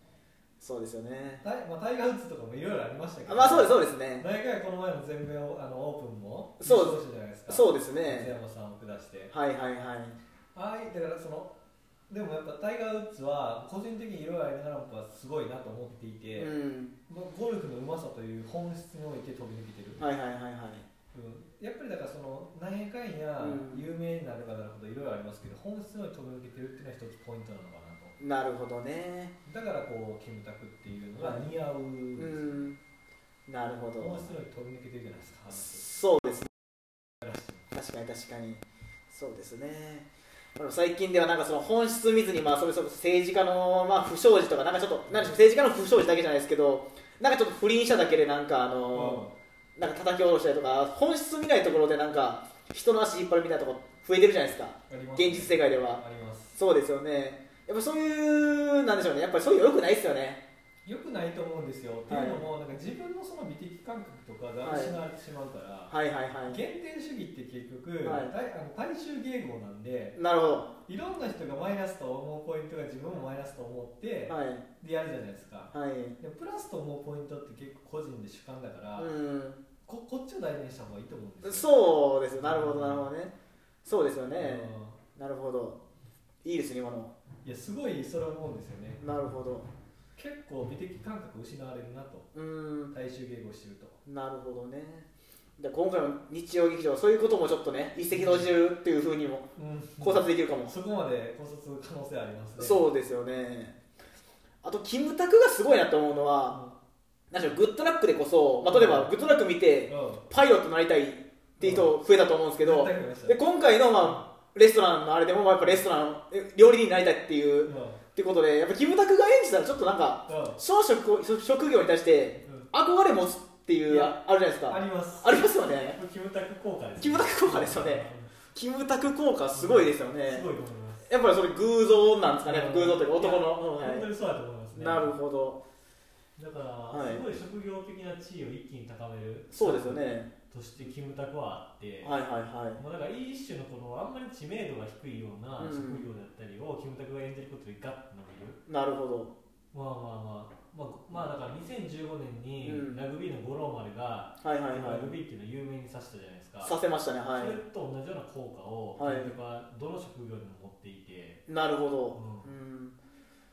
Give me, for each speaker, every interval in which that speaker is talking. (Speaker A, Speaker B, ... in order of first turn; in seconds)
Speaker A: 0.6-1.4, 3.2-4.3, 6.6-8.3, 9.3-10.2, 16.4-17.0, 20.0-20.9, 23.4-23.8, 28.2-29.4, 31.2-31.5, 32.1-32.8, 33.5-34.3, 35.5-36.5, 37.7-49.2, 49.8-56.0, 56.5-60.4, 62.1-62.5, 64.6-65.0, 65.9-66.6, 68.0-68.3, 70.2-70.7, 74.3-74.6, 75.7-76.2, 78.9-79.6, 81.4-83.3, 83.8-85.8, 86.4-87.1, 89.0-89.7, 92.3-92.9, 94.0-99.5, 100.0-100.7, 102.6-103.8, 104.6-106.6, 107.3-126.0, 127.0-130.4, 131.1-134.1, 134.7-135.6, 136.9-137.2, 139.5-140.9, 142.0-142.8, 145.6-146.1, 148.7-149.3, 152.6-153.0, 154.4-155.2, 156.6-157.6, 159.0-159.3, 161.5-162.9
Speaker B: 1.4-9.3, 10.5-11.5, 12.1-16.5, 17.1-20.0, 21.1-28.1, 29.4-32.6, 34.0-35.8, 37.2-37.7, 45.1-45.4, 48.9-49.3, 54.9-56.6, 60.8-65.9, 66.5-70.2, 70.8-79.1, 79.8-81.7, 82.3-83.1, 84.4-85.0, 87.4-89.0, 90.2-92.3, 92.9-94.0, 98.1-98.5, 99.5-102.8, 106.5-106.8, 108.6-109.3, 109.9-110.2, 111.6-112.0, 112.6-113.4, 117.6-118.0, 120.3-120.6, 122.4-122.7, 123.9-128.4, 129.5-131.1, 132.4-135.1, 136.4-142.1, 142.8-148.6, 149.7-156.8, 157.3-161.4, 162.1-162.5